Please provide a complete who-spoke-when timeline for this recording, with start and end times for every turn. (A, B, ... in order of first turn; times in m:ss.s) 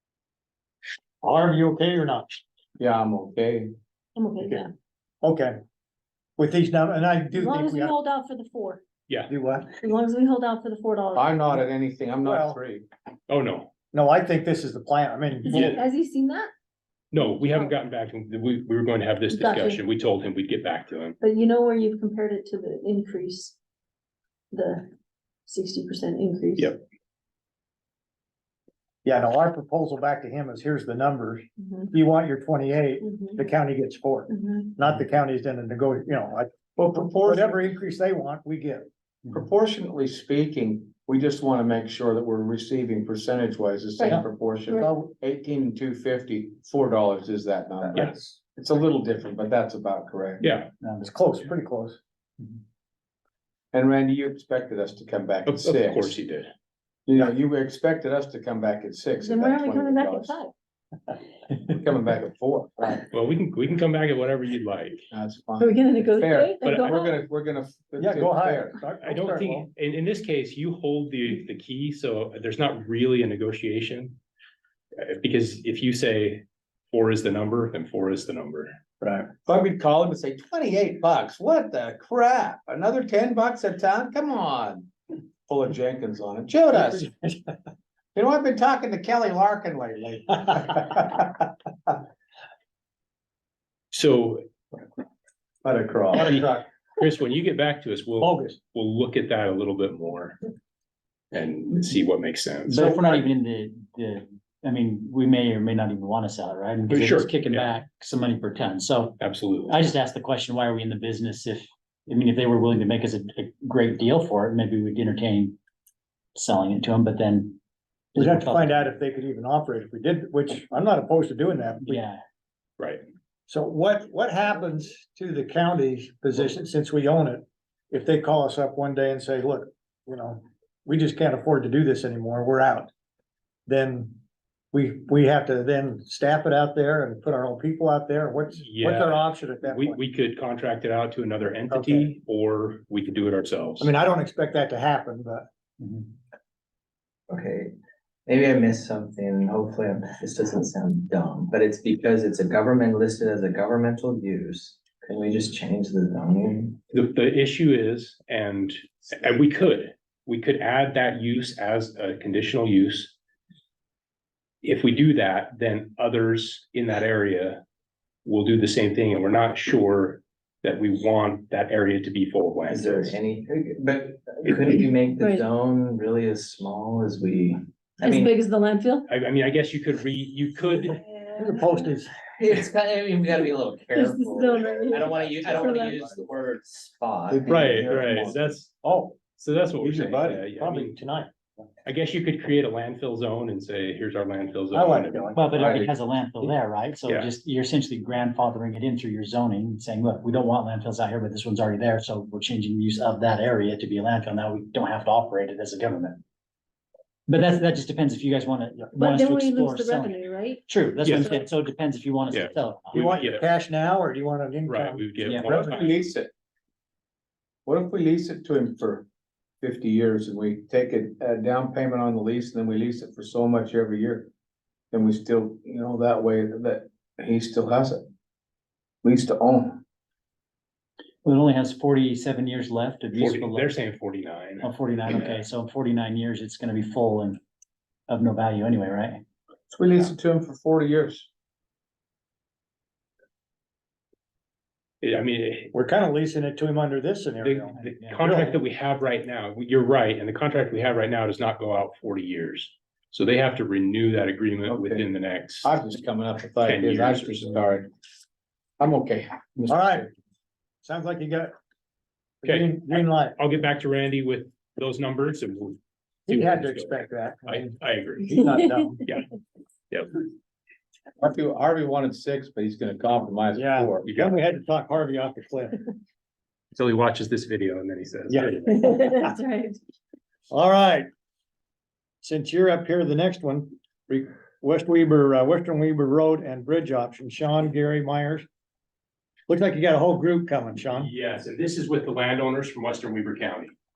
0:01.2-0:02.4 A
0:02.8-0:03.7 B
0:04.2-0:04.7 C
0:05.2-0:05.5 A
0:06.4-0:07.9 A
0:07.3-0:08.8 C
0:09.3-0:09.7 A
0:09.8-0:11.3 C
0:11.1-0:12.8 B
0:12.2-0:12.6 A
0:13.3-0:13.7 D
0:13.9-0:15.8 A
0:15.4-0:16.5 C
0:15.5-0:15.8 D
0:17.1-0:21.2 D
0:17.4-0:17.7 C
0:19.3-0:19.8 C
0:21.2-0:23.6 C
0:24.5-0:24.9 C
0:25.5-0:26.8 C
0:29.0-0:36.5 A
0:31.6-0:31.9 C
0:33.0-0:33.4 C
0:34.3-0:34.7 C
0:36.8-0:37.6 B
0:37.2-0:38.9 A
0:39.3-0:50.5 B
0:44.0-0:44.9 C
0:44.8-0:45.1 A
0:47.8-0:48.4 A
0:50.4-0:50.7 D
0:51.0-0:52.0 A
0:53.7-0:56.1 B
0:55.4-0:56.5 D
0:57.1-1:00.3 B
0:59.2-1:00.5 C
1:01.6-1:03.0 B
1:03.1-1:05.0 D
1:05.1-1:08.8 B
1:05.6-1:07.1 C
1:08.0-1:09.7 A
1:09.0-1:14.2 D
1:15.0-1:18.7 D
1:19.0-1:19.3 A
1:19.4-1:24.9 B
1:25.5-1:27.1 B
1:26.7-1:27.5 A
1:28.1-1:31.2 B
1:33.9-1:34.4 D
1:35.6-1:36.3 B
1:36.1-1:36.6 A
1:37.0-1:40.4 D
1:38.2-1:38.6 A
1:41.3-1:42.8 D
1:42.7-1:55.6 E
1:42.7-1:43.2 A
1:46.9-1:47.7 D
1:49.2-1:49.9 D
1:56.3-1:57.6 E
1:58.1-1:58.9 E
1:58.2-2:02.0 A
2:01.8-2:02.2 E
2:03.5-2:12.9 A
2:13.7-2:14.2 A
2:14.7-2:20.0 A
2:18.6-2:23.9 D
2:21.7-2:22.1 A
2:23.8-2:25.4 A
2:27.3-2:27.7 F
2:28.2-2:36.8 F
2:36.9-2:43.1 D
2:44.6-2:47.6 D
2:48.2-2:53.2 D
2:52.7-2:58.3 F
2:55.2-2:55.4 C
2:58.0-2:59.1 C
2:59.1-3:01.0 D
3:01.2-3:01.9 C
3:01.4-3:02.1 A
3:02.4-3:08.5 F
3:03.9-3:06.2 C
3:07.5-3:08.7 D
3:08.8-3:09.2 A
3:09.3-3:11.0 D
3:09.8-3:11.6 A
3:11.8-3:15.3 D
3:14.7-3:15.9 A
3:15.3-3:26.2 E
3:27.3-3:30.2 E
3:29.0-3:30.6 C
3:30.7-3:33.0 E
3:31.0-3:31.4 D
3:32.3-3:33.4 D
3:32.9-3:35.7 A
3:34.6-3:36.1 D
3:35.2-3:35.6 E
3:35.4-3:36.3 B
3:37.6-3:39.1 B
3:39.6-3:44.3 B
3:44.9-3:48.0 B
3:49.0-3:49.8 B
3:51.2-3:53.8 E
3:53.1-3:55.4 D
3:54.6-3:57.4 E
3:58.1-3:59.2 E
3:59.7-4:01.3 B
4:05.0-4:05.7 D
4:05.7-4:08.6 A
4:07.4-4:15.7 D
4:07.7-4:08.4 E
4:14.6-4:15.0 B
4:15.6-4:17.9 B
4:16.6-4:17.6 D
4:18.8-4:20.1 B
4:19.7-4:20.1 A
4:20.8-4:21.5 A
4:22.4-4:23.4 A
4:22.4-4:28.4 D
4:26.3-4:29.0 A
4:28.2-4:28.9 C
4:29.9-4:30.2 D
4:31.2-4:34.1 B
4:33.5-4:35.8 A
4:34.0-4:34.4 D
4:36.7-4:38.9 D
4:38.3-4:38.6 A
4:38.7-4:39.8 C
4:40.5-4:41.1 A
4:42.2-4:48.4 A
4:49.5-4:51.1 A
4:51.0-4:53.7 D